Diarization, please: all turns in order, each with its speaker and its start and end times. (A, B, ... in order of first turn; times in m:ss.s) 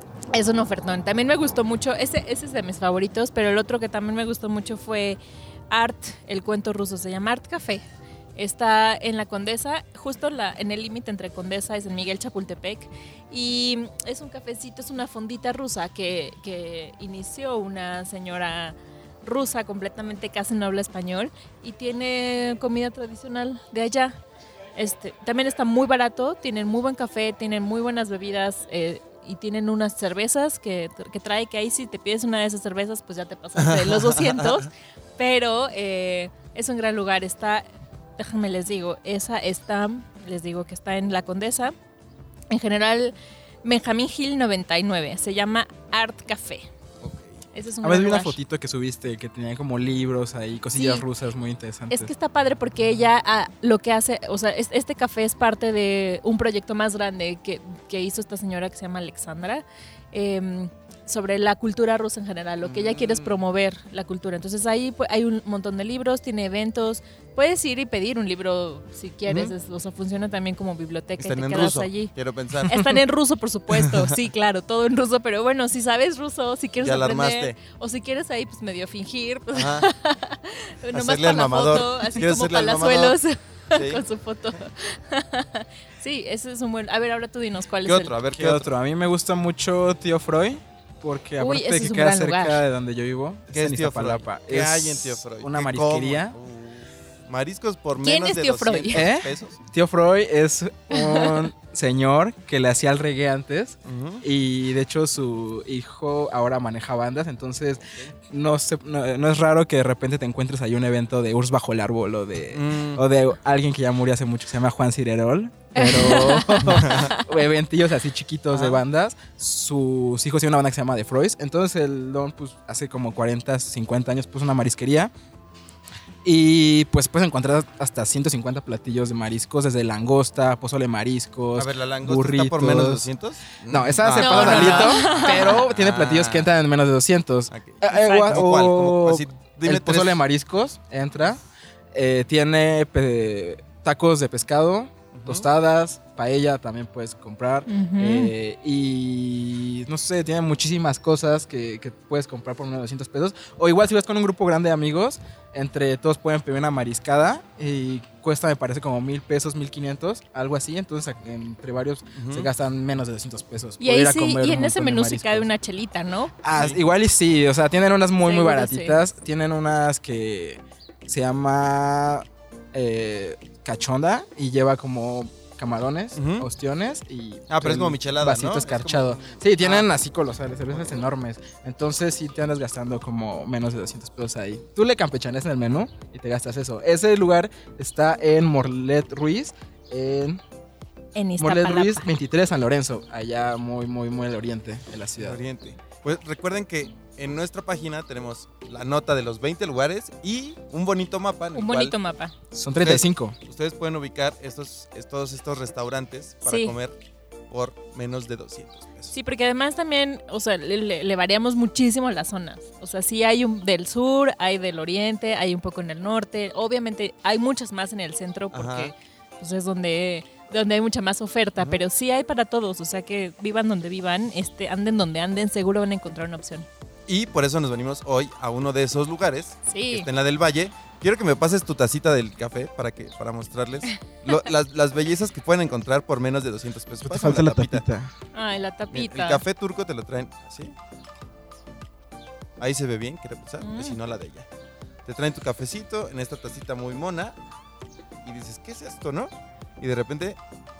0:00.3-0:07.8 A
0:08.4-0:24.1 A
0:24.8-0:37.7 A
0:33.6-0:34.6 B
0:38.2-0:41.7 A
0:42.5-0:46.7 A
0:47.0-0:47.3 B
0:47.5-0:48.4 A
0:47.8-0:52.1 C
0:50.7-0:51.1 A
0:51.9-1:12.1 A
1:02.6-1:03.4 B
1:09.3-1:09.5 B
1:11.2-1:12.8 B
1:12.7-1:28.1 A
1:16.8-1:17.6 B
1:19.6-1:19.9 B
1:20.9-1:23.2 B
1:23.7-1:24.0 B
1:27.8-1:28.7 B
1:28.3-1:36.4 C
1:31.4-1:32.6 A
1:33.5-1:39.6 B
1:38.0-1:39.1 A
1:38.9-2:05.1 C
1:40.9-1:41.5 A
1:43.8-1:44.2 B
1:47.9-1:48.1 B
1:52.5-1:53.1 B
1:55.8-1:57.3 A
1:56.7-1:57.1 B
1:58.5-1:58.8 B
2:06.2-2:13.1 C
2:11.6-2:16.5 B
2:13.6-2:21.4 C
2:14.2-2:15.6 A
2:17.5-2:20.2 B
2:17.9-2:18.4 A
2:21.9-2:45.5 C
2:25.1-2:25.5 B
2:27.7-2:28.3 A
2:42.1-2:42.5 B
2:43.8-2:46.3 A
2:46.4-3:10.4 C
2:46.6-2:46.8 B
2:48.2-2:49.0 A
2:56.2-2:56.5 B
2:57.5-2:59.9 B
3:11.2-3:12.1 A
3:11.4-3:15.4 C
3:15.2-3:21.9 B
3:21.5-3:22.3 A
3:22.5-3:23.4 C
3:22.8-3:27.0 B
3:26.4-3:26.8 A
3:27.5-3:29.2 B
3:29.1-3:46.7 A
3:38.5-3:38.9 B
3:41.6-3:41.8 B
3:47.1-3:57.8 B
3:49.7-3:50.1 A
3:57.0-3:58.1 C
3:58.3-3:59.4 A
3:58.9-4:00.7 B
4:02.6-4:04.5 B
4:03.6-4:04.0 A
4:05.1-4:07.4 B
4:08.2-4:10.4 B